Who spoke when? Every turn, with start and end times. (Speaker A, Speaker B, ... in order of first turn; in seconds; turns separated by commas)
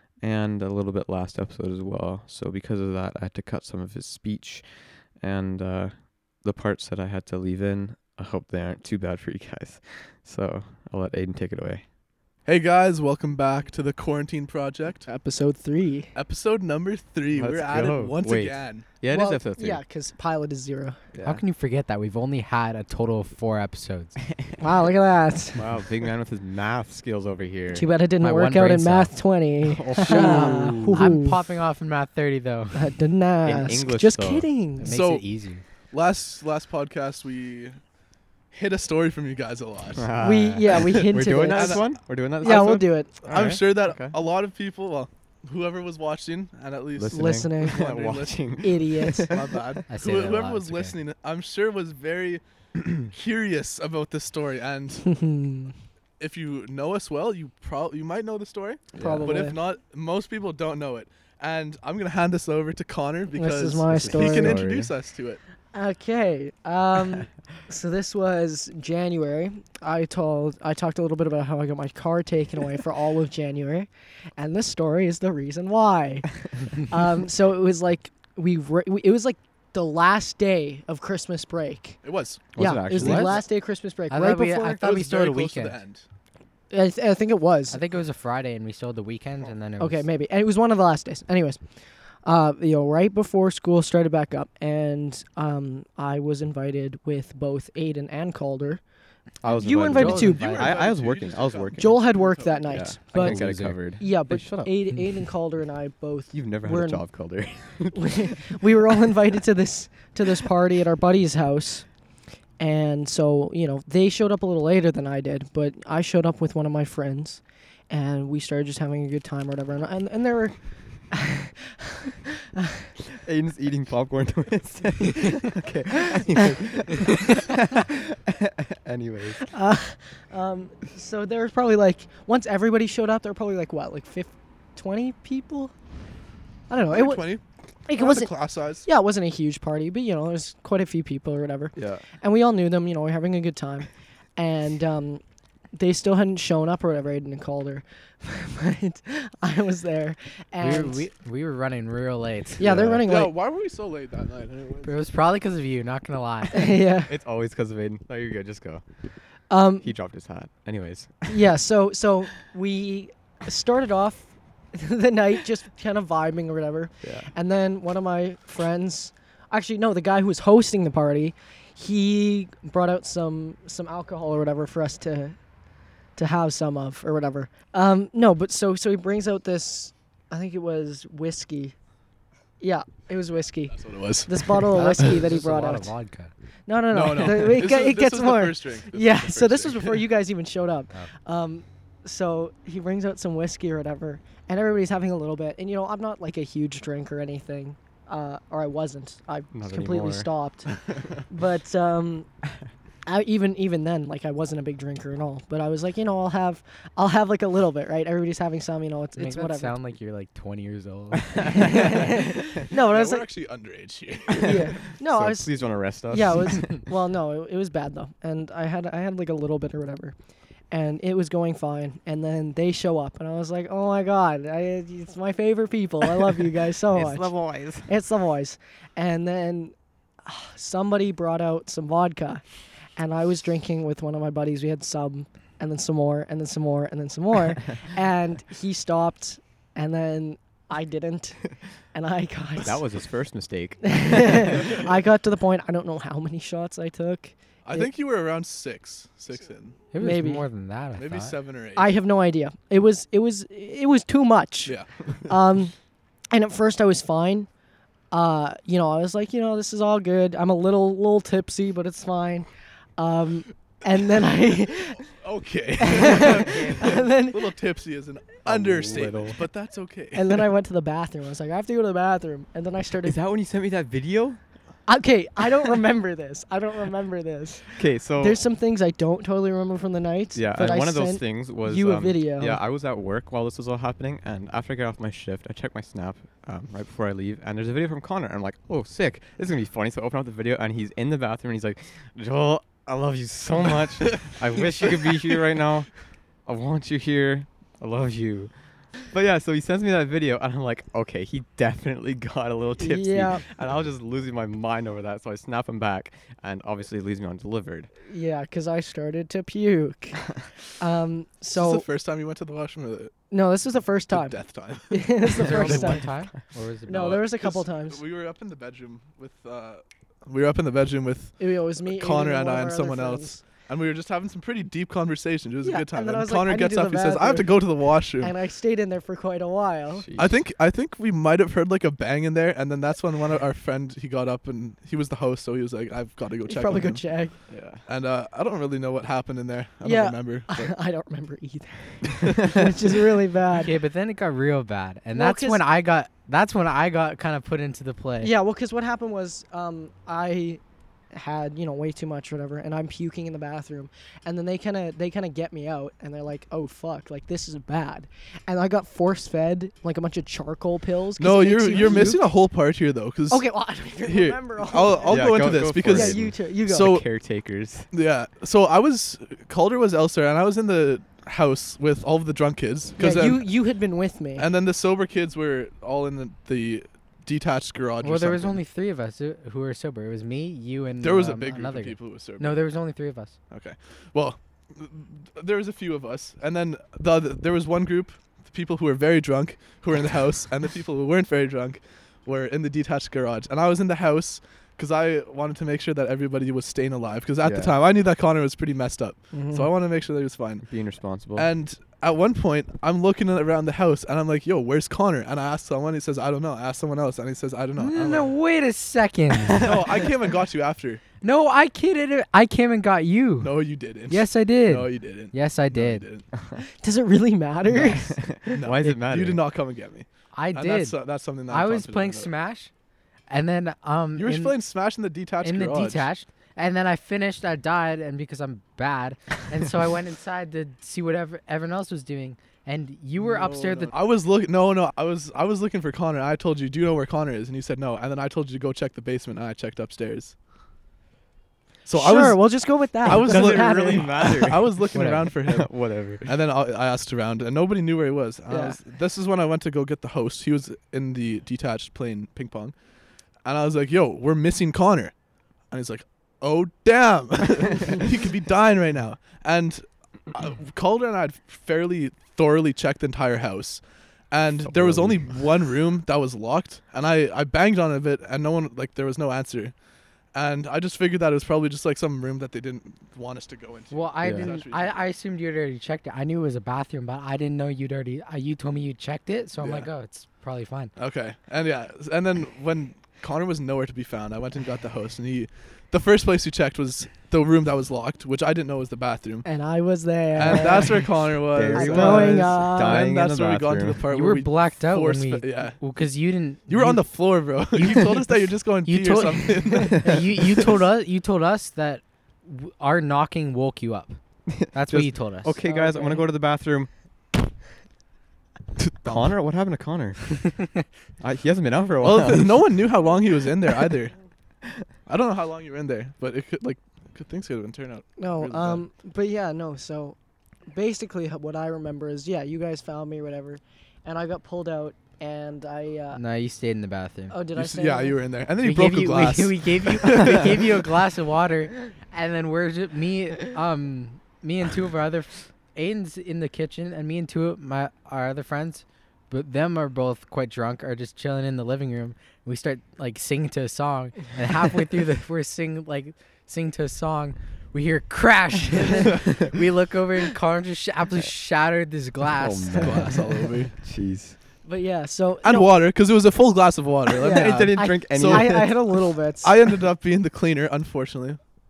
Speaker A: 0.2-4.7, Speaker A: 5.2-11.8, Speaker B: 12.5-15.1, Speaker C: 15.1-16.1, Speaker B: 16.1-18.9, Speaker A: 17.3-19.8, Speaker C: 19.1-21.0, Speaker A: 21.1-21.4, Speaker D: 21.2-24.2, Speaker C: 24.6-25.7, Speaker A: 25.6-27.9, Speaker C: 27.7-31.4, Speaker D: 28.2-29.1, Speaker A: 29.6-31.2, Speaker D: 30.0-32.9, Speaker C: 32.7-35.0, Speaker A: 33.4-34.5, Speaker D: 34.8-35.6, Speaker B: 34.8-35.2, Speaker B: 35.9-37.8, Speaker B: 38.5-40.1, Speaker A: 40.0-44.2, Speaker C: 40.2-43.2, Speaker B: 40.6-42.7, Speaker B: 43.2-55.1, Speaker A: 46.9-49.4, Speaker C: 47.1-47.8, Speaker C: 48.6-49.4, Speaker D: 49.9-51.0, Speaker C: 55.1-55.7, Speaker B: 56.2-65.4, Speaker A: 59.0-59.5, Speaker C: 59.0-59.6, Speaker C: 63.4-64.6, Speaker A: 63.9-64.9, Speaker C: 65.7-82.0, Speaker B: 82.0-83.4, Speaker A: 82.6-83.4, Speaker C: 82.6-84.8, Speaker D: 83.0-83.3, Speaker D: 84.1-85.8, Speaker B: 84.8-86.0, Speaker C: 86.7-87.8, Speaker D: 87.7-90.1, Speaker C: 89.8-91.6, Speaker C: 92.2-98.8, Speaker A: 99.4-102.0, Speaker C: 99.5-100.7, Speaker D: 99.9-100.7, Speaker B: 100.1-102.9, Speaker C: 101.8-103.4, Speaker A: 102.7-104.7, Speaker D: 103.1-104.7, Speaker C: 104.0-107.0, Speaker A: 106.3-108.6, Speaker C: 108.0-111.9, Speaker C: 112.6-120.6, Speaker C: 121.1-122.9, Speaker A: 123.1-129.5, Speaker C: 129.5-135.7, Speaker C: 136.7-137.3, Speaker B: 136.9-137.4, Speaker C: 137.9-138.3, Speaker B: 137.9-138.9, Speaker C: 138.9-145.2, Speaker A: 141.8-142.0, Speaker C: 145.7-151.1, Speaker D: 150.6-152.6, Speaker C: 152.6-153.3, Speaker A: 152.6-153.1, Speaker B: 153.1-155.0, Speaker D: 154.8-156.8, Speaker C: 156.5-157.1, Speaker A: 157.1-158.8, Speaker C: 159.5-159.9, Speaker A: 159.8-161.5, Speaker C: 161.3-175.4, Speaker A: 167.0-167.3, Speaker C: 176.2-181.8, Speaker C: 182.6-185.9, Speaker B: 183.8-184.7, Speaker D: 184.7-186.3, Speaker C: 186.7-202.3, Speaker B: 186.9-190.1, Speaker A: 199.5-201.1, Speaker C: 203.1-209.7, Speaker D: 209.2-212.0, Speaker C: 211.5-213.3, Speaker B: 212.0-214.8, Speaker C: 214.4-215.5, Speaker A: 214.5-216.9, Speaker C: 216.1-220.2, Speaker C: 220.7-232.4, Speaker A: 226.9-227.9, Speaker C: 233.0-242.8, Speaker A: 242.6-244.6, Speaker C: 243.8-247.9, Speaker B: 247.7-249.8, Speaker D: 249.9-251.4, Speaker C: 250.0-250.5, Speaker B: 251.0-251.9, Speaker C: 251.8-254.8, Speaker B: 254.7-254.9, Speaker C: 255.3-255.8, Speaker C: 256.3-257.5, Speaker C: 258.1-265.0, Speaker B: 265.0-270.5, Speaker C: 265.8-267.5, Speaker D: 266.5-266.7, Speaker A: 268.4-269.4, Speaker C: 270.1-273.2, Speaker A: 273.0-274.4, Speaker C: 274.9-282.6, Speaker A: 277.7-278.4, Speaker A: 280.3-295.9, Speaker A: 296.5-298.5, Speaker A: 299.0-307.9, Speaker C: 302.8-303.4, Speaker C: 308.1-311.8, Speaker B: 311.5-313.1, Speaker C: 313.3-314.4, Speaker B: 314.1-315.8, Speaker C: 314.9-316.1, Speaker D: 315.4-317.2, Speaker C: 316.9-318.0, Speaker B: 316.9-328.4, Speaker C: 321.4-323.4, Speaker C: 325.6-327.7, Speaker C: 328.2-330.1, Speaker A: 330.0-330.4, Speaker B: 330.2-337.0, Speaker C: 336.5-337.4, Speaker A: 337.5-337.8, Speaker B: 337.8-340.7, Speaker C: 339.8-343.7, Speaker D: 343.5-348.3, Speaker C: 345.1-345.6, Speaker C: 348.2-350.6, Speaker C: 351.1-362.3, Speaker B: 361.2-363.4, Speaker C: 363.3-367.0, Speaker B: 364.0-367.0, Speaker A: 365.1-367.9, Speaker B: 367.9-373.5, Speaker C: 373.0-374.5, Speaker B: 374.4-378.6, Speaker D: 378.0-383.4, Speaker B: 381.0-382.6, Speaker B: 383.5-400.7, Speaker A: 397.4-397.7, Speaker C: 399.3-399.7, Speaker A: 400.6-401.5, Speaker B: 401.4-408.3, Speaker D: 407.8-409.7, Speaker A: 409.5-409.9, Speaker B: 409.6-411.0, Speaker D: 411.2-413.6, Speaker B: 413.4-416.3, Speaker D: 414.1-416.1, Speaker C: 416.6-418.3, Speaker A: 417.7-419.4, Speaker B: 418.5-422.3, Speaker D: 420.3-420.9, Speaker D: 421.5-422.7, Speaker D: 423.3-424.6, Speaker B: 424.2-426.1, Speaker D: 425.4-433.9, Speaker B: 433.2-440.4, Speaker B: 441.9-445.7, Speaker C: 441.9-444.3, Speaker A: 443.1-446.3, Speaker D: 444.9-445.3, Speaker B: 446.2-452.7, Speaker C: 448.5-448.8, Speaker B: 453.4-455.1, Speaker B: 455.7-469.7, Speaker A: 464.6-465.3, Speaker B: 470.3-475.0, Speaker D: 473.9-480.9, Speaker A: 474.2-474.5, Speaker B: 479.6-479.9, Speaker B: 481.0-489.5, Speaker C: 489.4-491.2, Speaker B: 490.4-495.8, Speaker A: 491.5-494.0, Speaker C: 491.7-493.1, Speaker D: 494.1-497.0, Speaker B: 496.7-500.8, Speaker D: 497.8-498.2, Speaker D: 498.9-505.6, Speaker A: 504.5-506.9, Speaker C: 505.6-506.2, Speaker A: 509.0-510.7, Speaker B: 509.0-509.3, Speaker A: 511.2-512.6, Speaker B: 512.0-514.2, Speaker B: 515.1-518.9, Speaker C: 518.2-520.2, Speaker C: 520.7-526.2, Speaker D: 526.1-527.4, Speaker C: 527.3-528.2, Speaker B: 527.5-530.8, Speaker D: 528.6-553.3, Speaker A: 552.3-554.4, Speaker B: 552.8-553.7, Speaker C: 554.6-555.7, Speaker B: 555.4-558.8, Speaker A: 557.2-558.9, Speaker C: 557.2-559.5, Speaker B: 559.4-561.4